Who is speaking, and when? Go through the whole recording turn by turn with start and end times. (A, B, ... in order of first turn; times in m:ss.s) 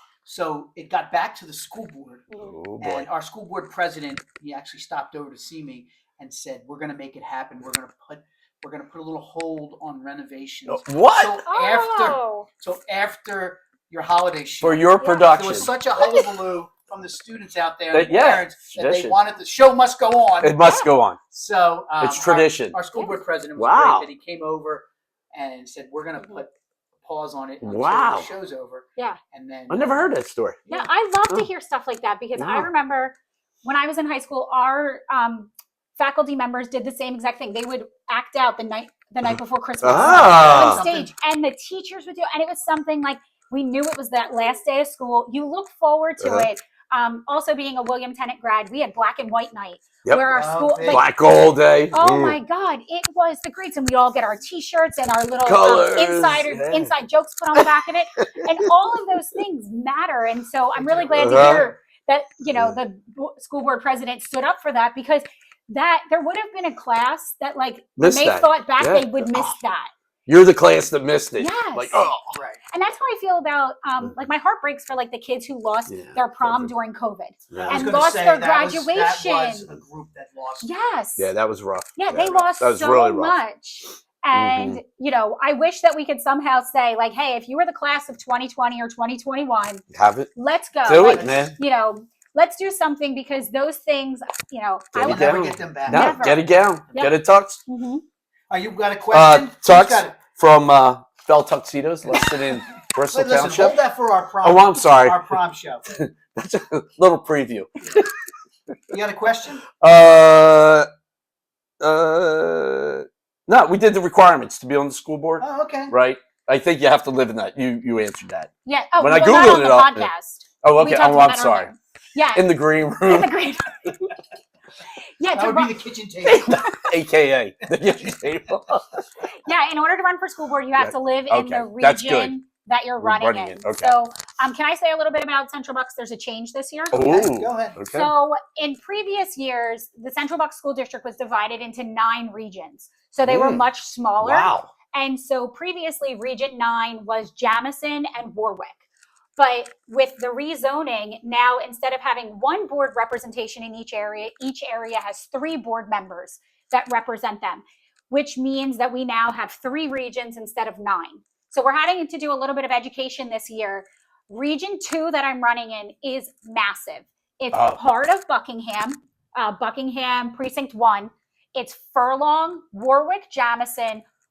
0:00.2-0:20.6 A
0:02.4-0:03.0 B
0:10.7-0:11.4 B
0:11.4-0:12.5 C
0:14.6-0:15.8 B
0:15.0-0:16.2 C
0:17.9-0:19.2 B
0:20.4-0:21.2 B
0:20.6-0:20.9 C
0:21.3-0:30.2 A
0:22.0-0:22.8 B
0:23.6-0:24.1 B
0:26.1-0:26.4 C
0:27.6-0:28.3 B
0:29.7-0:30.6 B
0:30.7-0:51.0 C
0:32.4-0:32.7 B
0:39.2-0:40.8 B
0:39.8-0:41.1 A
0:46.2-0:46.5 B
0:50.3-0:51.0 A
0:50.8-0:52.4 B
0:51.9-1:09.9 C
0:55.4-0:56.9 B
0:58.2-0:58.7 B
1:00.7-1:01.8 A
1:01.1-1:01.6 B
1:08.0-1:09.5 B
1:10.3-1:12.4 B
1:11.4-1:12.1 C
1:12.3-1:12.6 A
1:12.7-1:19.7 C
1:15.9-1:16.7 B
1:17.5-1:17.9 B
1:17.5-1:20.7 A
1:20.6-1:21.3 C
1:21.2-1:23.4 B
1:22.0-1:29.8 C
1:24.3-1:24.8 B
1:29.9-1:30.3 B
1:30.3-1:35.3 C
1:30.8-1:31.6 B
1:31.0-1:31.5 A
1:34.9-1:37.6 B
1:35.0-1:37.1 A
1:35.9-1:37.1 C
1:37.6-1:38.0 C
1:38.5-1:40.2 A
1:39.1-1:43.8 B
1:43.1-1:45.8 A
1:44.4-1:45.3 B
1:45.9-1:48.1 B
1:48.9-1:49.6 A
1:49.8-1:50.9 B
1:51.8-2:00.1 B
1:55.4-1:55.9 A
1:58.6-2:02.5 C
2:00.6-2:01.7 B
2:02.3-2:03.3 B
2:03.0-2:04.1 C
2:05.2-2:05.7 C
2:05.3-2:06.6 A
2:06.2-2:09.0 B
2:09.4-2:17.1 C
2:10.8-2:12.3 B
2:13.0-2:13.9 B
2:16.9-2:18.1 B
2:17.0-2:17.8 A
2:17.9-2:28.8 C
2:23.2-2:23.6 B
2:24.2-2:24.7 B
2:29.4-2:54.0 C
2:47.5-2:47.8 B